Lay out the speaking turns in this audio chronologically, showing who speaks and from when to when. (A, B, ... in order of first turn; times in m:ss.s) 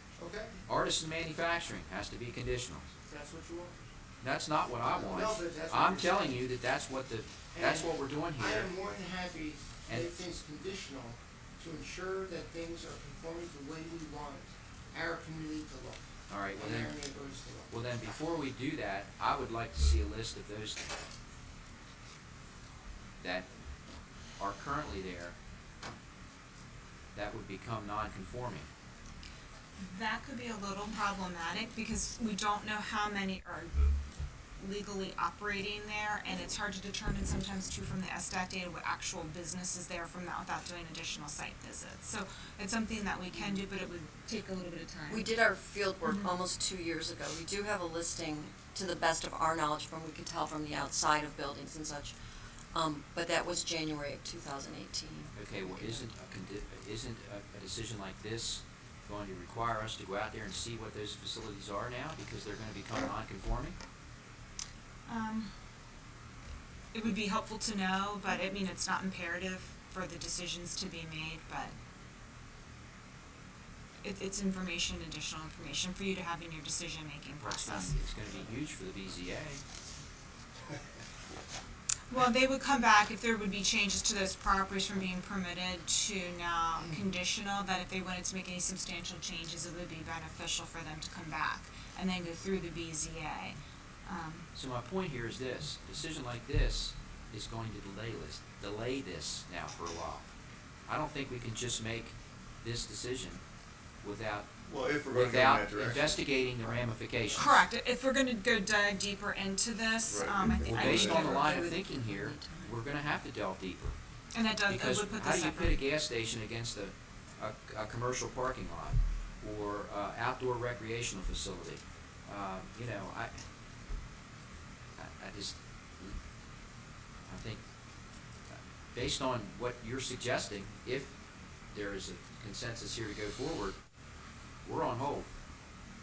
0:00.2-0:00.6 A
0:00.7-0:02.8 B
0:03.0-0:03.8 A
0:04.2-0:08.7 B
0:04.8-0:06.4 A
0:07.5-0:17.7 A
0:09.9-0:10.1 B
0:16.3-0:17.0 B
0:17.7-0:20.8 B
0:23.2-0:23.5 B
0:24.4-0:25.3 B
0:27.1-0:28.7 B
0:29.8-0:33.9 C
0:34.6-0:45.3 C
0:43.3-0:43.6 D
0:45.1-0:52.1 D
0:46.0-0:46.3 C
0:52.7-0:56.0 D
0:55.3-1:03.8 B
1:05.0-1:05.5 C
1:06.9-1:11.7 C
1:14.0-1:18.0 C
1:17.4-1:19.6 B
1:22.1-1:34.5 C
1:34.5-1:40.3 B
1:40.9-1:43.4 B
1:44.0-1:44.5 B
1:44.6-1:46.8 E
1:45.1-1:47.6 B
1:47.3-1:51.6 C
1:50.1-1:51.5 E
1:50.4-1:52.8 D
1:50.6-1:54.0 B
1:54.3-1:55.8 C
1:54.7-2:03.4 B
2:05.0-2:06.1 B
2:07.3-2:07.6 B
2:08.5-2:11.1 B
2:11.7-2:13.8 B
2:14.6-2:15.3 B